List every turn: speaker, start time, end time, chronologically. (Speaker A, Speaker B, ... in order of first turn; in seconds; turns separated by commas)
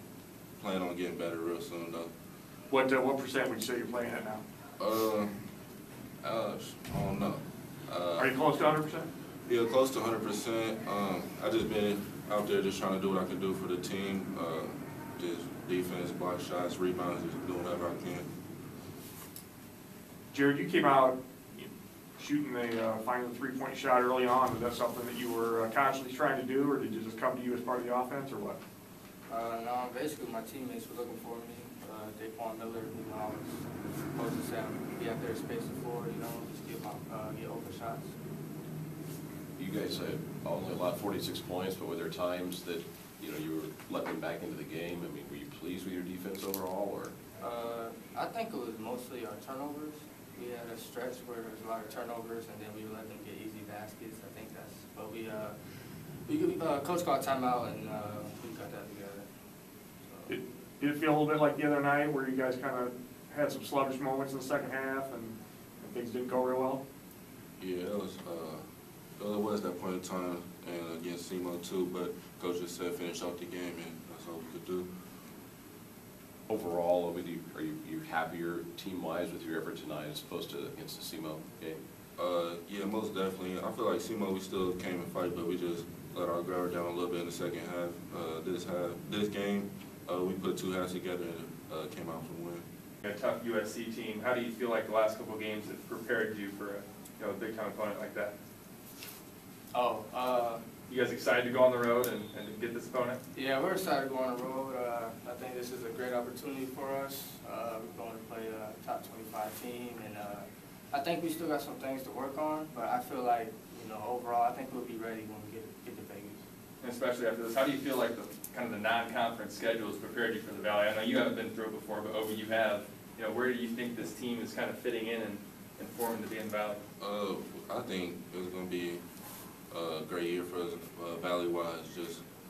Speaker A: 0.6-2.1, Speaker B: 2.7-4.4, Speaker A: 4.8-5.3, Speaker A: 6.2-8.3, Speaker B: 8.2-9.1, Speaker A: 9.5-18.3, Speaker B: 20.3-28.6, Speaker C: 29.3-38.1, Speaker D: 39.6-47.2, Speaker C: 47.4-55.6, Speaker C: 56.3-59.3, Speaker B: 60.3-66.8, Speaker A: 67.6-68.6, Speaker A: 69.2-74.9, Speaker D: 76.5-81.8, Speaker A: 82.2-92.6, Speaker E: 93.0-98.3, Speaker C: 99.7-100.7, Speaker E: 100.9-103.2, Speaker C: 103.3-116.4, Speaker E: 116.8-126.8, Speaker A: 127.0-129.0, Speaker A: 129.7-132.2